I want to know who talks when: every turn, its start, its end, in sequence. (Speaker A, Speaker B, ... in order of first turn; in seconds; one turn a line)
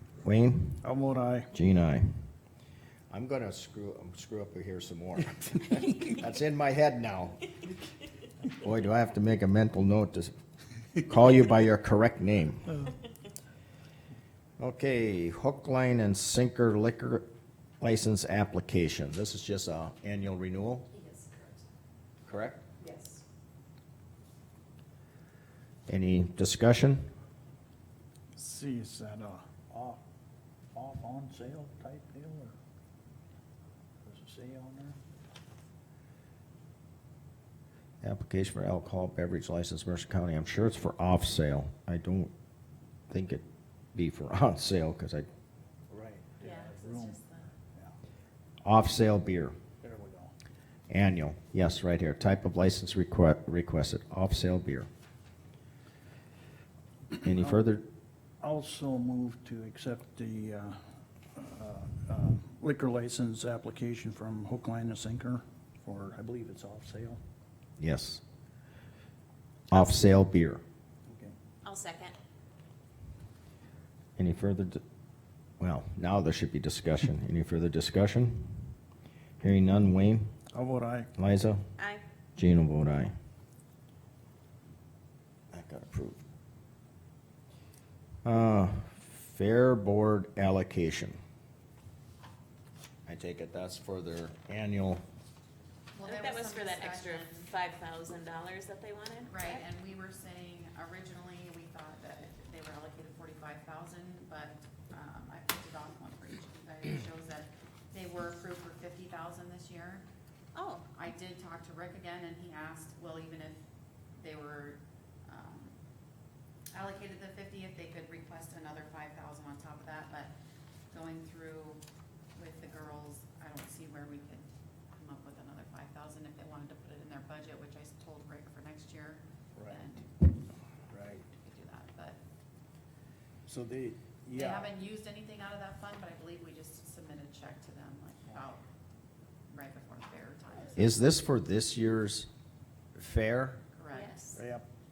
Speaker A: 0.2-0.8
Speaker B: 0.8-1.5
Speaker A: 1.5-2.2
Speaker A: 3.1-7.7
Speaker A: 8.6-10.3
Speaker A: 11.0-12.8
Speaker A: 14.6-17.2
Speaker A: 17.8-20.9
Speaker C: 20.9-21.5
Speaker A: 22.2-22.6
Speaker A: 25.9-27.1
Speaker B: 28.3-30.0
Speaker B: 30.7-32.5
Speaker B: 34.0-35.0
Speaker A: 38.0-42.3
Speaker A: 43.1-43.4
Speaker A: 43.9-45.3
Speaker B: 45.9-48.0
Speaker C: 46.4-47.5
Speaker A: 48.6-49.5
Speaker B: 49.8-50.3
Speaker A: 50.9-54.9
Speaker B: 57.1-57.6
Speaker A: 57.2-57.9
Speaker B: 58.4-60.8
Speaker B: 61.3-67.2
Speaker A: 67.8-68.2
Speaker A: 69.7-70.6
Speaker C: 69.7-70.1
Speaker B: 71.1-71.3
Speaker C: 71.6-72.1
Speaker A: 74.2-74.8
Speaker A: 75.6-78.7
Speaker A: 79.4-80.3
Speaker B: 80.5-81.1
Speaker A: 81.2-81.7
Speaker C: 81.8-82.0
Speaker A: 82.4-83.1
Speaker A: 85.5-86.2
Speaker A: 88.2-91.2
Speaker A: 93.0-95.0
Speaker D: 95.9-97.5
Speaker C: 96.0-99.6
Speaker D: 99.3-110.0
Speaker C: 110.5-110.8
Speaker D: 110.9-113.6
Speaker D: 114.2-115.8
Speaker D: 116.7-120.3
Speaker D: 120.9-121.8
Speaker D: 122.3-130.1
Speaker B: 129.6-130.0
Speaker B: 130.9-131.3
Speaker D: 131.3-132.2
Speaker B: 133.4-134.7
Speaker D: 134.3-138.6
Speaker D: 139.5-141.0
Speaker A: 140.8-142.3
Speaker A: 142.9-143.6
Speaker D: 143.7-144.2
Speaker C: 143.9-144.4
Speaker B: 144.3-144.7